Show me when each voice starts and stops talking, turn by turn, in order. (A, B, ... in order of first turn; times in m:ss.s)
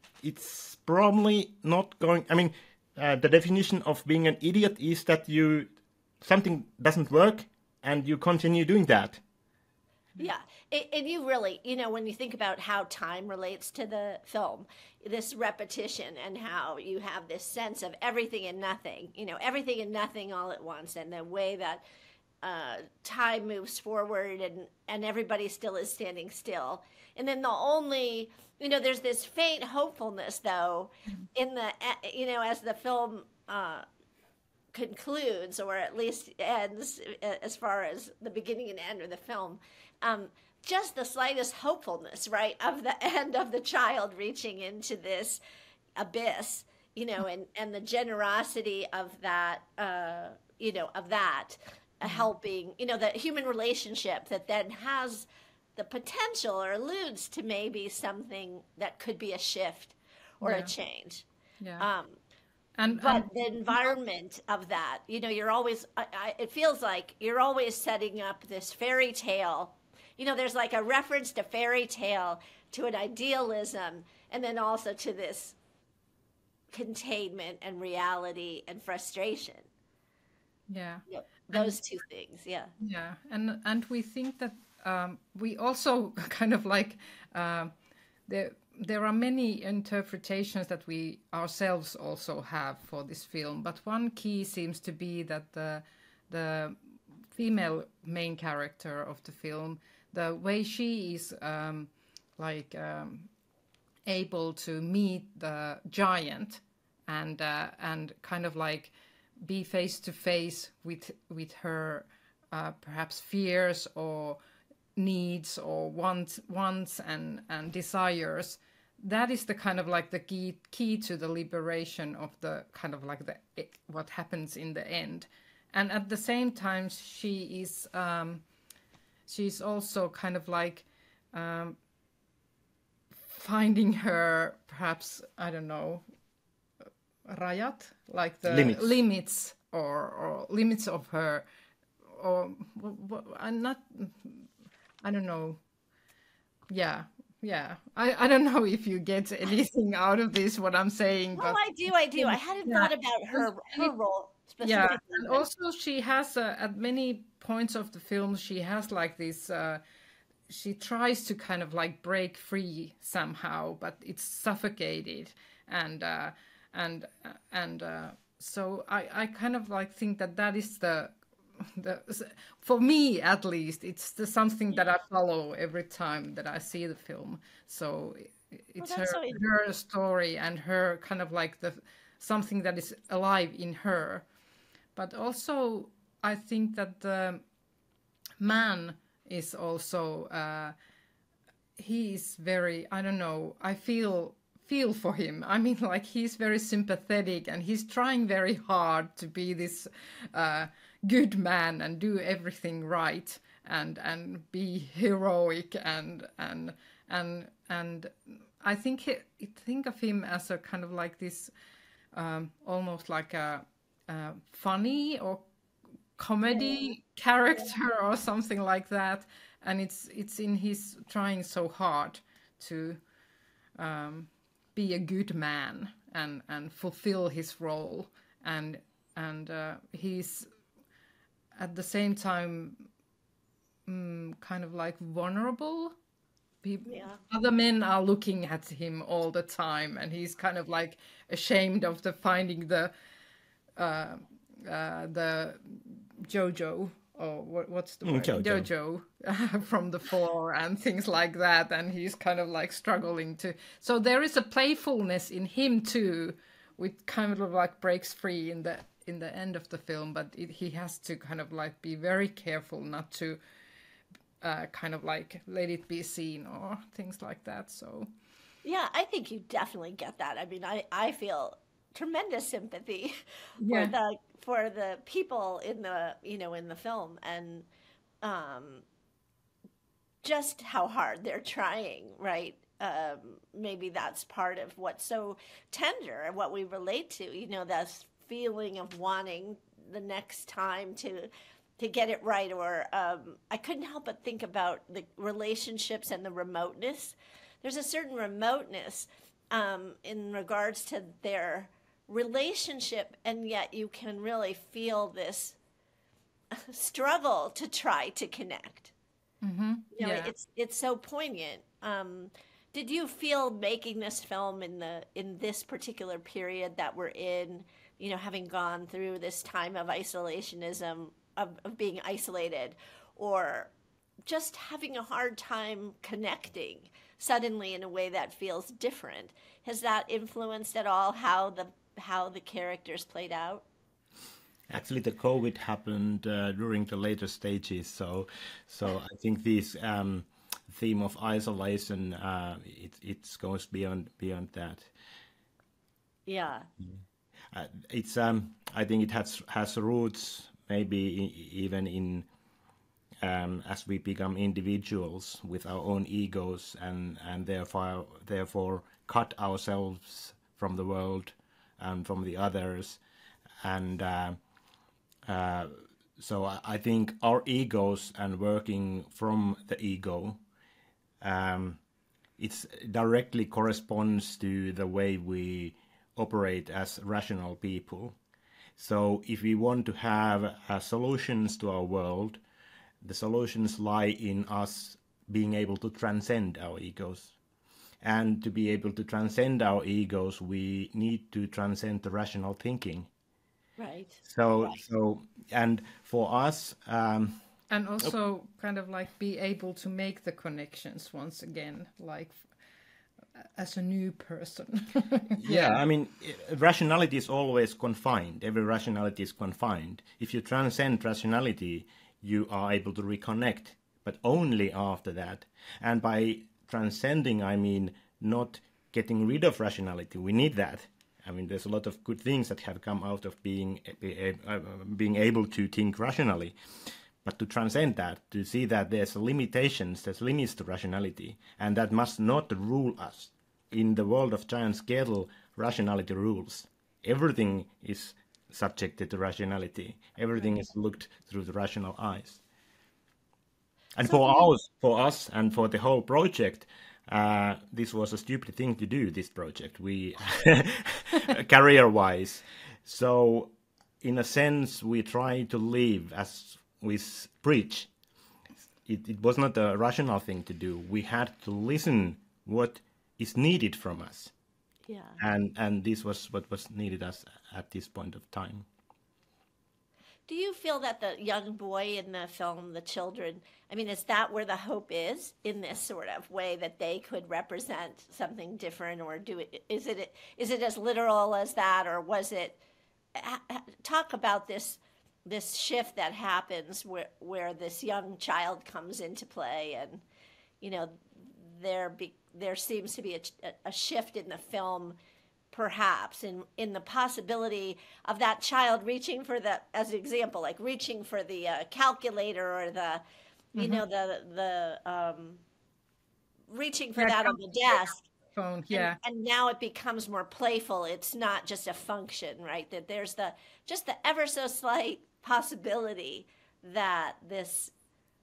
0:00.2-0:09.2 A
0:10.2-0:21.8 B
0:22.4-0:33.8 B
0:34.7-0:45.4 B
0:46.0-1:01.2 B
0:52.0-0:52.3 C
1:00.4-1:00.7 C
1:01.6-1:01.9 C
1:01.8-1:02.2 B
1:02.8-1:03.9 C
1:03.0-1:15.6 B
1:16.7-1:19.7 B
1:20.7-1:21.8 C
1:21.1-1:22.7 B
1:22.8-1:27.7 C
1:28.3-1:36.8 C
1:37.3-1:43.3 C
1:44.1-1:48.9 C
1:49.4-1:54.4 C
1:55.0-2:08.4 C
2:09.3-2:11.8 C
2:13.2-2:16.0 C
2:17.3-2:21.4 C
2:18.4-2:18.9 A
2:22.1-2:24.5 C
2:25.0-2:25.6 C
2:26.7-2:31.6 C
2:31.4-2:35.4 B
2:32.1-2:33.9 C
2:34.6-2:39.8 C
2:40.5-3:04.2 C
2:58.8-2:59.4 B
3:04.9-3:07.4 C
3:08.4-3:10.7 C
3:11.8-3:31.5 C
3:32.1-3:35.5 C
3:36.2-3:43.0 C
3:43.8-3:50.5 C
3:51.6-3:52.9 C
3:53.9-3:55.9 C
3:56.6-4:02.9 C
3:56.8-3:57.2 B
4:03.8-4:23.4 C
4:08.0-4:08.7 A
4:24.4-4:28.1 C
4:28.6-4:37.6 B
4:33.6-4:33.9 C
4:38.2-4:38.8 B
4:40.2-5:05.6 B
5:06.5-5:08.9 B
5:09.4-5:10.3 C
5:09.9-5:23.7 B
5:24.3-5:33.6 B
5:34.7-5:44.9 A
5:46.3-5:46.7 B
5:47.5-5:52.3 A
5:53.2-6:03.0 A
6:03.6-6:04.4 A
6:05.2-6:10.4 A
6:11.2-6:11.8 A
6:12.4-6:18.2 A
6:18.8-6:22.4 A
6:23.0-6:27.3 A
6:28.0-6:33.1 A
6:33.8-6:34.8 B
6:34.2-6:37.4 A
6:37.7-6:42.4 C
6:43.4-6:45.8 C
6:45.4-7:06.5 A
7:07.2-7:22.4 A
7:24.0-7:37.9 A
7:38.8-7:44.3 A
7:44.9-7:45.2 B
7:45.2-7:48.6 A
7:50.3-8:02.6 B
8:03.1-8:10.0 B
8:10.6-8:15.0 B
8:15.5-8:23.0 B
8:23.5-8:25.4 B
8:23.6-8:23.8 C
8:26.5-8:28.0 B
8:27.0-8:29.0 C
8:28.7-8:37.7 B